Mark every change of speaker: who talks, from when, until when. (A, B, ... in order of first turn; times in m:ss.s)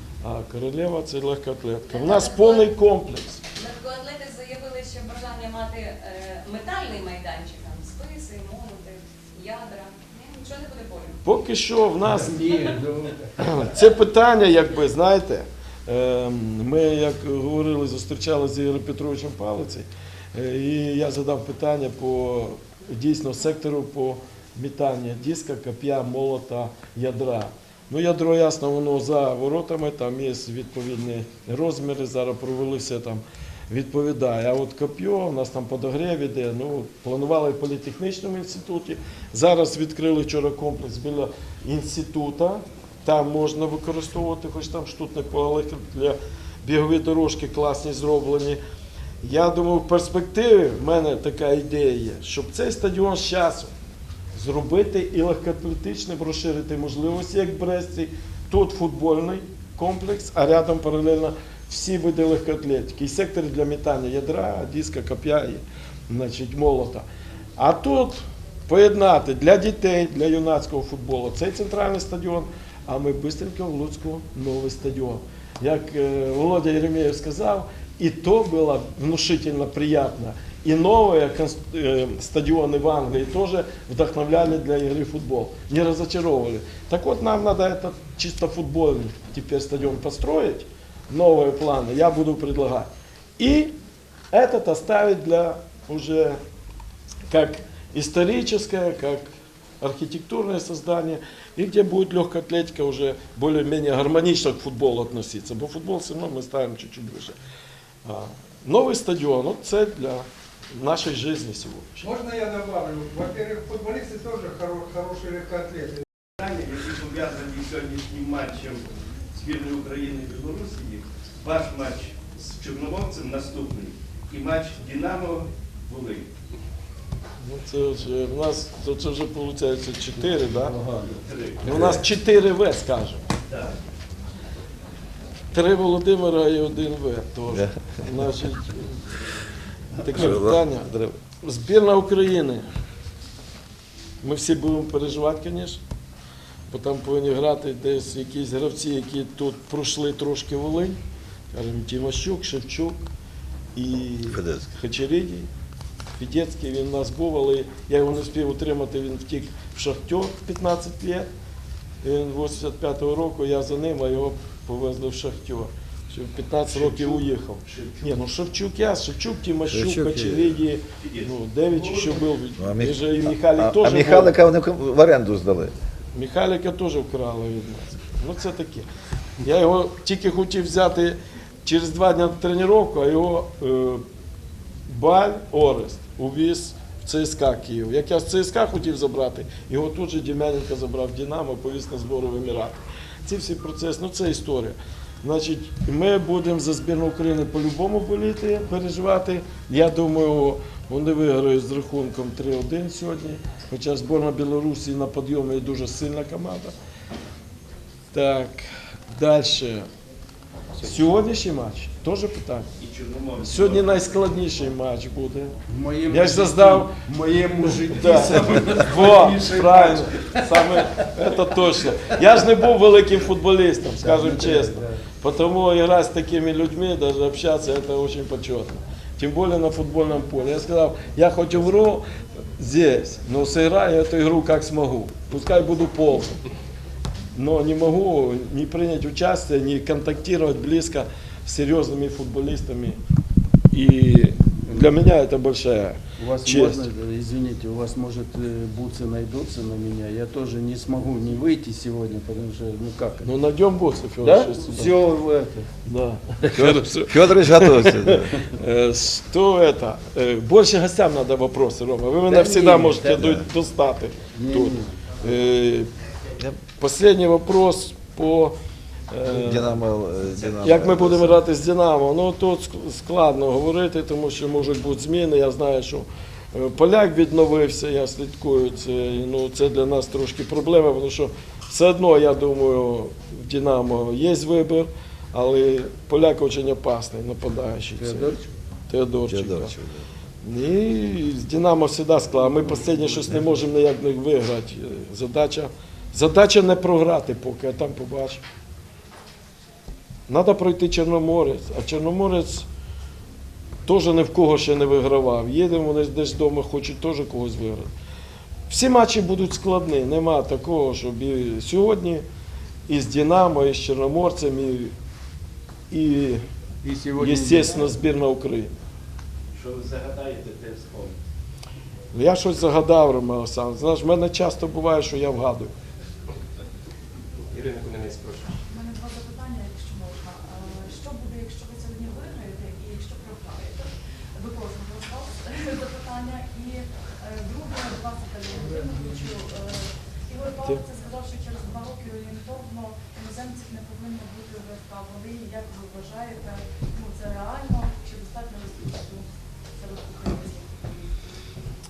0:00.2-0:03.4 A
0:01.9-0:02.7 B
0:03.5-0:11.2 B
0:11.2-0:12.4 A
0:12.1-0:13.2 C
0:13.4-0:48.6 A
0:49.2-0:53.7 A
0:54.3-1:07.0 A
1:07.6-1:33.7 A
1:34.3-1:36.4 A
1:37.3-1:39.3 A
1:39.8-1:47.4 A
1:48.0-1:52.2 A
1:52.2-1:56.0 D
1:56.4-2:06.3 E
2:07.4-2:10.7 A
2:10.2-2:11.1 C
2:11.1-2:11.7 E
2:11.6-2:13.2 A
2:11.7-2:12.0 F
2:15.5-2:19.0 A
2:20.0-2:22.6 A
2:20.1-2:20.6 F
2:24.2-2:25.8 A
2:26.7-2:31.0 A
2:31.5-2:33.0 A
2:33.7-2:35.5 A
2:34.3-2:34.7 F
2:36.1-2:41.3 A
2:42.0-2:54.4 A
2:49.7-2:50.5 F
2:52.6-2:55.7 F
2:56.1-2:58.9 A
2:59.4-3:04.0 A
3:04.9-3:26.7 A
3:28.1-3:29.8 A
3:30.8-3:32.7 A
3:32.8-3:33.8 E
3:33.4-3:35.5 A
3:35.7-3:40.2 C
3:36.1-3:36.9 A
3:37.8-3:52.0 A
3:44.0-3:45.0 C
3:52.6-3:56.4 A
3:57.3-4:03.0 A
4:03.7-4:06.8 A
4:06.2-4:13.3 C
4:13.2-4:14.9 A
4:14.2-4:15.7 C
4:15.8-4:25.9 A
4:16.5-4:18.4 F
4:22.3-4:23.4 C
4:24.3-4:25.0 C
4:26.6-4:28.5 A
4:29.1-4:29.8 A
4:29.3-4:31.3 F
4:30.6-4:48.3 A
4:48.0-4:48.5 C
4:48.9-4:49.7 A
4:49.3-4:50.1 F
4:50.4-4:58.4 A
5:00.3-5:02.7 A
5:03.8-5:07.9 A
5:08.7-5:12.2 A
5:12.9-5:14.9 A
5:15.9-5:16.4 A
5:16.8-5:17.9 C
5:17.2-5:18.7 A
5:19.6-5:21.2 E
5:22.1-5:25.7 A
5:27.5-5:28.5 E
5:28.7-5:49.2 G
5:49.8-5:51.3 G